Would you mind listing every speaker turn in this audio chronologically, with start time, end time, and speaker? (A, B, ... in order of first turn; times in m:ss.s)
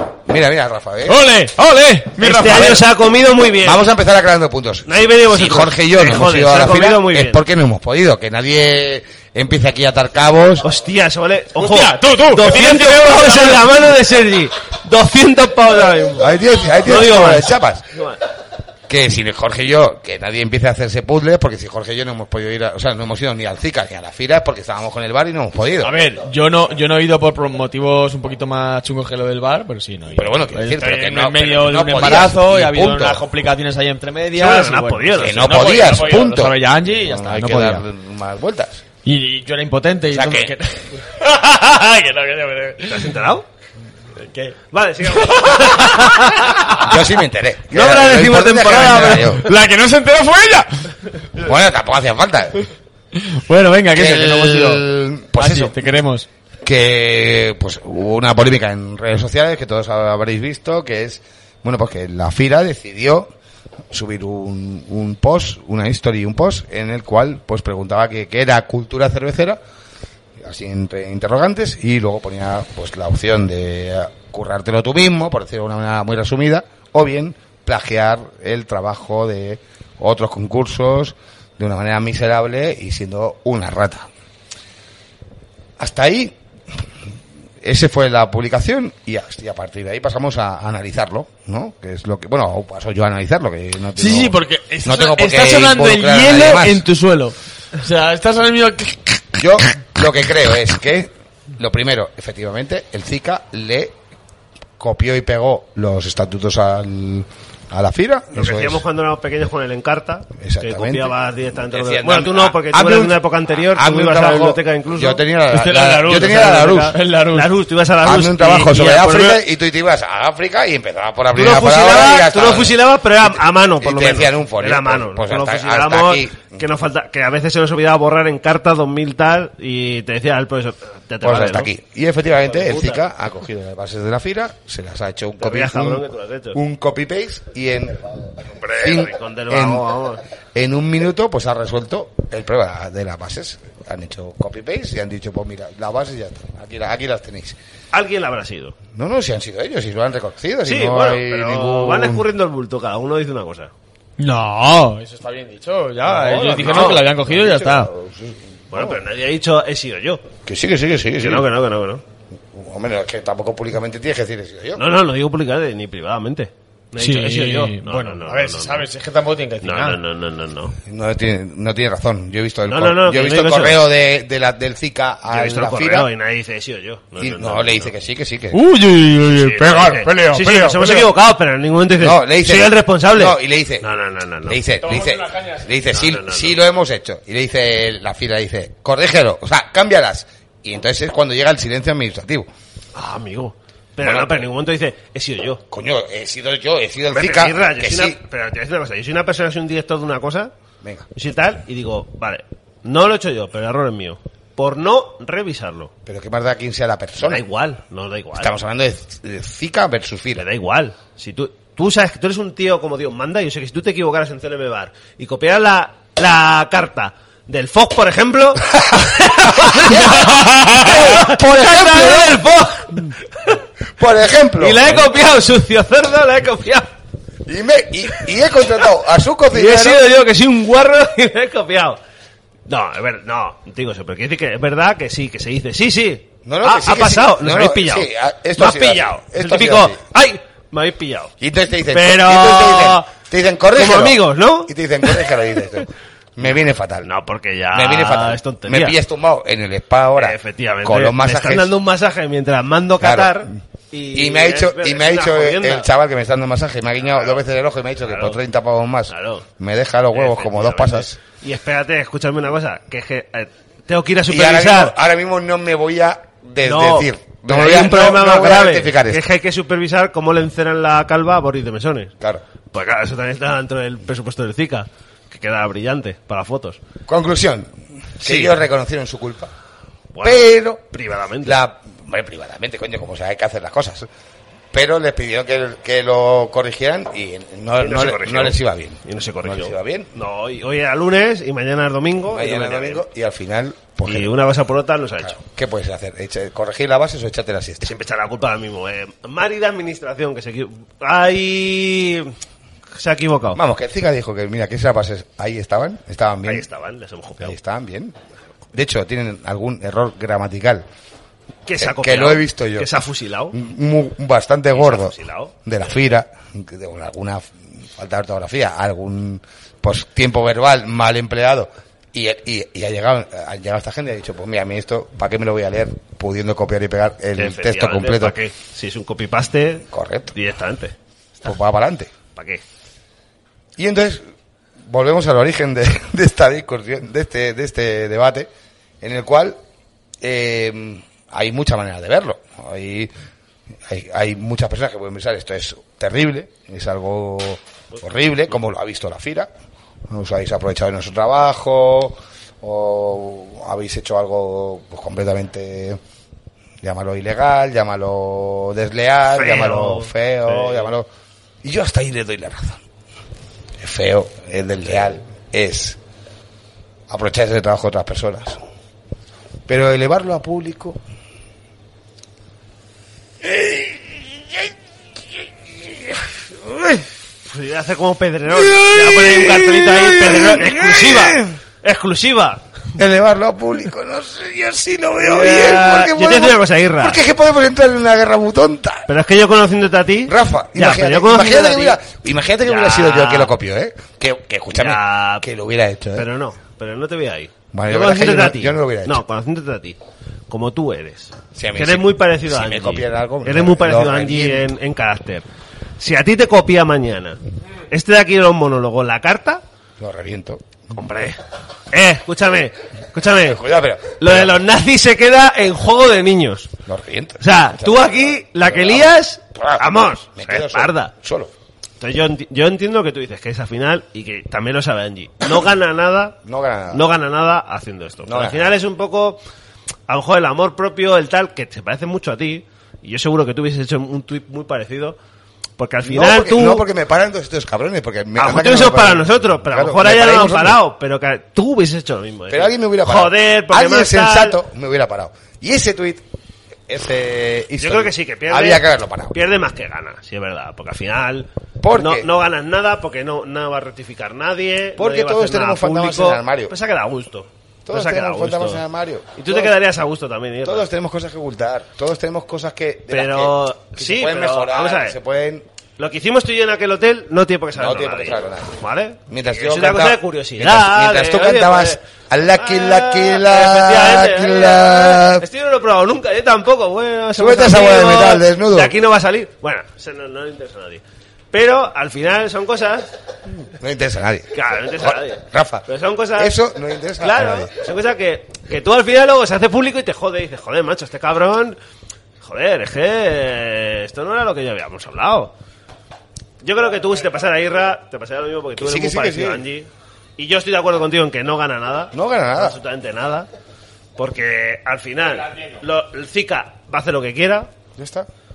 0:00.3-0:01.2 A
0:01.1-0:02.8 B
0:02.2-0:03.8 C
0:02.4-0:02.8 A
0:03.6-0:10.7 A
0:04.9-0:07.4 C
0:10.6-0:18.2 C
0:11.6-0:13.7 B
0:16.2-0:17.8 A
0:18.9-0:26.0 A
0:25.8-0:37.8 B
0:30.1-0:33.2 A
0:34.4-0:36.0 C
0:35.2-0:38.8 A
0:39.0-0:43.2 B
0:40.1-0:40.5 A
0:42.9-0:43.5 C
0:44.2-0:44.6 B
0:44.7-0:46.8 C
0:45.1-0:46.8 B
0:46.8-0:49.5 A
0:47.7-0:49.3 C
0:47.8-0:50.9 B
0:51.4-0:52.6 A
0:53.2-0:54.8 B
0:53.9-0:55.9 A
0:55.4-0:56.3 B
0:56.6-1:03.3 A
1:03.9-1:09.6 A
1:10.4-1:24.1 A
1:25.8-1:26.4 A
1:27.6-1:36.8 A
1:34.0-1:39.4 B
1:39.4-1:44.0 A
1:44.8-1:48.8 A
1:48.4-1:55.2 C
1:50.4-1:51.1 A
1:51.7-1:57.0 A
1:55.5-1:57.5 B
1:57.3-1:59.4 C
1:58.0-2:02.8 A
2:01.4-2:11.7 C
2:03.8-2:06.6 A
2:11.2-2:18.0 A
2:12.4-2:13.0 C
2:15.4-2:16.6 C
2:18.6-2:20.2 C
2:18.8-2:19.8 A
2:20.6-2:27.6 A
2:27.9-2:28.8 C
2:28.9-2:32.2 A
2:30.6-2:33.7 C
2:34.2-2:37.9 B
2:36.1-2:39.0 A
2:36.5-2:37.0 C
2:38.7-2:40.2 C
2:40.5-2:41.5 A
2:41.2-2:42.0 C
2:42.5-2:44.8 A
2:44.8-2:48.9 C
2:47.0-2:50.0 B
2:49.6-2:50.8 C
2:50.9-2:56.1 A
2:52.7-2:53.8 C
2:55.3-2:57.9 C
2:57.2-2:58.6 A
2:58.5-3:01.1 B
2:59.3-3:04.6 C
3:02.0-3:03.9 A
3:04.5-3:12.5 A
3:04.8-3:05.7 B
3:05.9-3:06.6 C
3:13.0-3:15.6 C
3:14.0-3:14.5 A
3:15.7-3:18.2 A
3:17.1-3:20.5 C
3:21.2-3:25.9 C
3:26.1-3:27.4 A
3:27.2-3:28.5 C
3:28.4-3:30.4 A
3:30.4-3:43.6 C
3:39.6-3:42.4 A
3:44.0-3:45.1 A
3:44.6-3:46.9 C
3:47.5-3:50.1 A
3:49.5-3:52.0 C
3:52.7-4:01.3 C
3:56.5-4:00.0 A
4:01.4-4:07.1 A
4:01.9-4:03.1 C
4:03.7-4:05.4 C
4:07.0-4:09.0 C
4:07.7-4:11.7 A
4:10.2-4:15.9 C
4:13.0-4:13.5 A
4:14.1-4:21.2 A
4:18.1-4:18.4 C
4:19.1-4:19.5 C
4:20.1-4:25.0 C
4:24.3-4:29.2 A
4:26.6-4:32.1 C
4:32.7-4:36.8 C
4:37.1-4:39.5 A
4:38.2-4:38.6 C
4:40.1-4:41.6 C
4:40.2-4:40.8 A
4:41.4-4:44.1 A
4:44.7-4:50.1 A
4:47.8-4:53.0 C
4:52.3-4:54.4 A
4:54.0-4:55.4 C
4:55.2-4:58.0 A
4:57.8-5:02.3 C
5:03.0-5:03.6 C
5:03.5-5:06.7 A
5:06.4-5:07.6 C
5:07.4-5:08.2 A
5:08.7-5:10.8 A
5:11.7-5:13.6 C
5:11.8-5:28.4 A
5:14.7-5:15.6 C
5:27.4-5:30.9 C
5:29.9-5:30.3 A
5:31.4-5:32.1 A
5:32.4-5:32.6 C
5:33.8-5:34.2 A
5:34.8-5:38.5 A
5:39.0-5:39.6 A
5:40.2-5:43.1 A
5:43.9-5:49.5 A
5:50.1-5:56.0 A
5:56.8-6:01.1 A
5:59.3-6:00.9 C
6:01.6-6:02.8 A
6:03.8-6:06.0 A
6:07.1-6:08.6 A
6:09.7-6:11.0 A
6:13.4-6:14.7 A
6:15.7-6:17.1 A
6:17.5-6:22.6 C
6:18.5-6:21.6 A
6:23.0-6:29.1 A
6:25.2-6:27.2 C
6:29.1-6:32.0 C
6:30.3-6:36.3 A
6:32.6-6:33.5 C
6:34.7-6:35.5 C
6:36.2-6:40.0 C
6:37.7-6:39.2 A
6:40.5-6:45.4 C
6:41.6-6:44.7 A
6:46.0-6:47.4 C
6:47.9-6:49.6 C
6:50.0-6:51.0 A
6:51.0-6:51.4 C
6:51.9-6:53.6 C
6:53.4-6:54.6 A
6:54.2-6:56.8 C
6:56.9-7:01.5 A
6:57.4-7:01.1 C
7:02.0-7:06.4 C
7:06.4-7:07.1 A
7:06.9-7:09.4 C
7:08.2-7:08.8 A
7:10.1-7:15.2 C
7:15.8-7:16.8 C
7:16.0-7:20.8 A
7:18.4-7:24.6 C
7:22.5-7:26.2 A
7:26.9-7:29.4 A
7:27.8-7:38.8 C
7:31.8-7:32.3 A
7:35.0-7:36.7 A
7:37.9-7:39.7 A
7:39.4-7:40.9 C
7:40.6-7:45.6 A
7:43.1-7:45.2 C
7:46.0-7:52.0 C
7:47.8-7:55.4 A
7:52.5-8:03.1 C
7:57.4-7:59.0 A
8:03.8-8:07.7 A
8:04.5-8:06.6 C
8:07.2-8:11.8 C
8:12.4-8:15.5 C
8:16.6-8:23.5 C
8:18.8-8:19.6 A
8:22.1-8:22.8 A
8:24.2-8:27.7 C
8:28.0-8:28.3 A